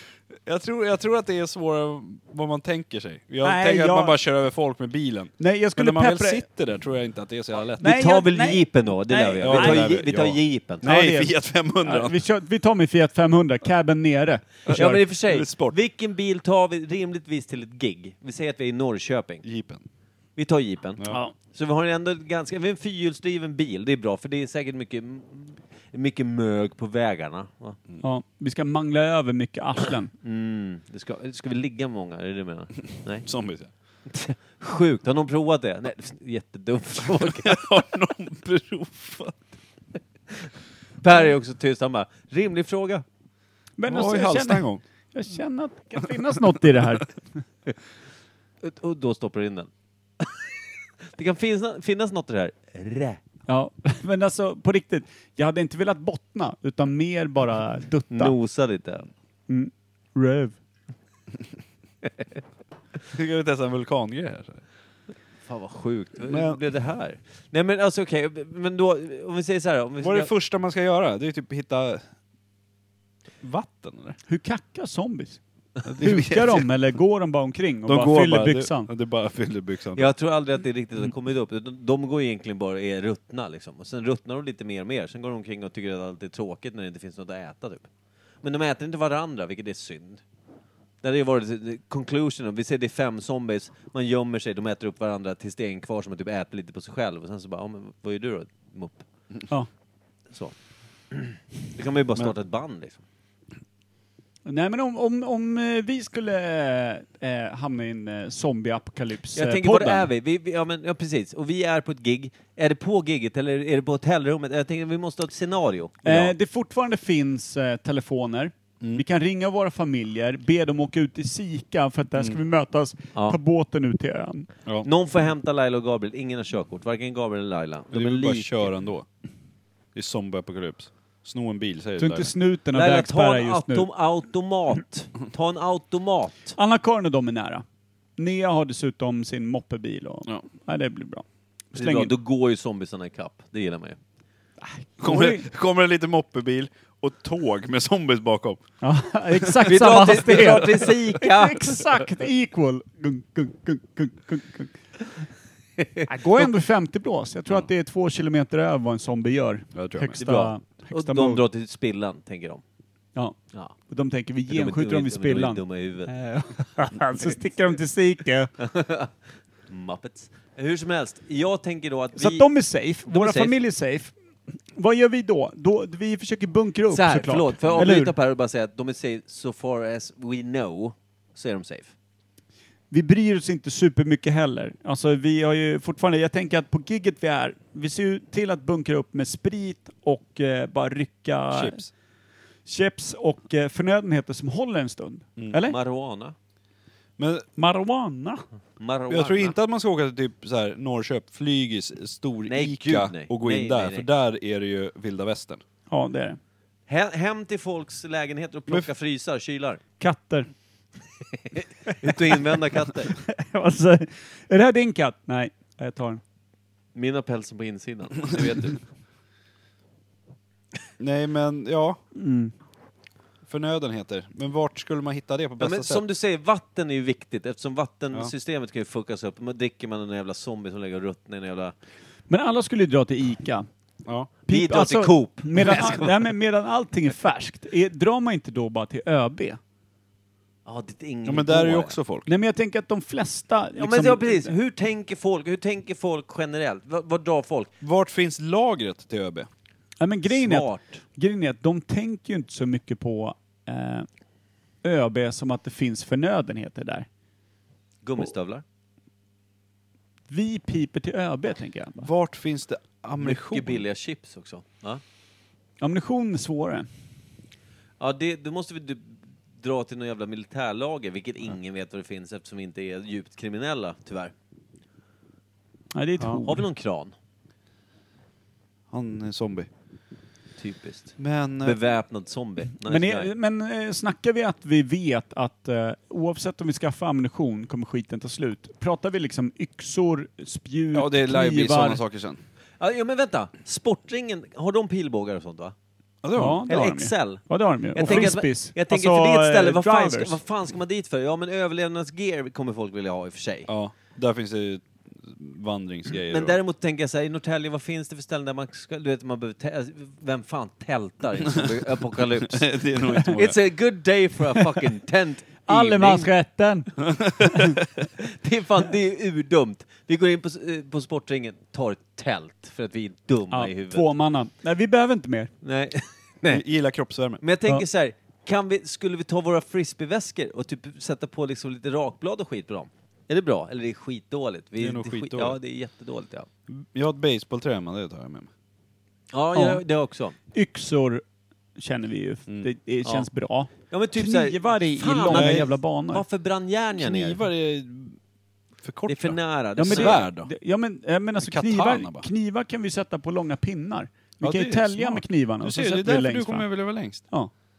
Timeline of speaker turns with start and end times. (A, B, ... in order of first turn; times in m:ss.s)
0:00.4-0:07.9 A
0:03.4-0:04.2 B
0:05.4-0:06.4 B
0:07.8-0:10.0 B
0:07.8-0:10.8 C
0:09.4-0:12.2 A
0:10.8-0:15.0 B
0:14.7-0:15.8 A
0:14.7-0:19.4 C
0:19.4-0:19.8 A
0:20.4-0:27.8 C
0:21.1-0:21.3 B
0:28.0-0:30.1 B
0:30.2-0:33.3 C
0:33.2-0:33.7 A
0:34.0-0:37.8 C
0:37.3-0:39.5 A
0:41.0-0:43.0 C
0:43.8-0:47.1 B
0:43.9-0:44.8 A
0:48.6-0:53.2 C
0:53.5-0:58.3 B
0:58.1-0:59.1 C
0:59.5-1:00.6 B
1:03.1-1:04.6 A
1:05.4-1:10.3 C
1:06.3-1:06.6 A
1:10.0-1:12.0 A
1:13.4-1:14.2 A
1:14.3-1:15.4 B
1:15.8-1:16.7 A
1:16.0-1:18.9 B
1:17.9-1:20.1 A
1:19.9-1:27.9 C
1:28.4-1:30.2 C
1:31.0-1:39.0 C
1:40.3-1:40.5 C
1:41.1-1:43.0 C
1:44.4-1:50.1 B
1:49.3-1:56.3 C
1:56.0-2:04.5 B
2:04.8-2:08.7 C
2:07.9-2:09.0 A
2:09.9-2:12.3 A
2:12.0-2:13.9 B
2:12.7-2:16.6 C
2:16.6-2:17.6 B
2:18.2-2:22.1 B
2:21.8-2:24.0 C
2:24.6-2:25.4 B
2:25.0-2:28.6 A
2:28.8-2:34.8 B
2:29.4-2:30.6 A
2:29.6-2:32.0 C
2:35.8-2:36.1 C
2:36.1-2:41.4 B
2:39.7-2:40.2 A
2:40.2-2:42.6 C
2:43.9-2:48.5 B
2:44.5-2:46.1 C
2:48.6-2:49.1 C
2:49.7-2:52.5 C
2:52.2-2:54.2 B
2:53.0-2:53.6 C
2:54.7-2:58.1 B
2:56.9-3:01.9 C
3:02.9-3:11.8 B
3:11.5-3:11.9 A
3:12.6-3:15.8 B
3:15.6-3:16.3 C
3:17.2-3:17.5 A
3:17.6-3:18.4 B
3:18.8-3:19.6 C
3:19.1-3:25.6 A
3:22.5-3:24.1 C
3:25.9-3:26.4 B
3:26.9-3:29.8 C
3:30.0-3:30.5 B
3:31.5-3:33.1 C
3:33.1-3:36.2 B
3:36.9-3:38.8 C
3:41.0-3:42.0 A
3:42.1-3:42.5 B
3:43.4-3:46.0 A
3:45.6-3:51.7 C
3:52.3-3:53.7 B
3:54.0-3:54.3 A
3:54.5-3:59.6 B
3:54.5-3:56.2 C
4:00.6-4:02.0 C
4:01.2-4:02.3 A
4:02.2-4:04.5 B
4:03.8-4:07.7 C
4:07.8-4:09.5 A
4:10.0-4:14.1 B
4:10.3-4:11.0 C
4:14.8-4:17.1 B
4:18.0-4:18.6 C
4:20.3-4:22.1 B
4:22.0-4:23.8 A
4:23.2-4:25.0 C
4:25.8-4:26.9 B
4:28.0-4:34.3 C
4:35.9-4:36.6 B
4:36.4-4:37.1 C
4:38.9-4:39.7 A
4:40.6-4:43.3 C
4:41.2-4:41.8 A
4:42.8-4:52.0 B
4:50.9-4:52.4 A
4:52.8-4:55.7 C
4:56.2-4:56.6 A
4:56.4-5:00.4 B
4:56.7-5:03.7 C
5:03.7-5:06.6 A
5:06.2-5:16.3 C
5:12.4-5:13.6 A
5:15.7-5:17.8 B
5:17.0-5:17.7 A
5:18.2-5:24.1 C
5:23.5-5:25.5 B
5:25.6-5:26.6 C
5:26.5-5:27.4 A
5:27.4-5:36.5 C
5:34.8-5:35.6 A
5:36.7-5:38.5 A
5:39.3-5:40.4 C
5:39.5-5:39.8 B
5:40.5-5:41.2 B
5:41.8-5:46.2 B
5:43.9-5:47.4 C
5:45.3-5:45.7 A
5:47.0-5:48.2 A
5:48.8-5:50.5 A
5:49.0-5:50.2 C
5:49.8-5:56.7 B
5:51.4-5:52.3 A
5:54.4-5:57.3 A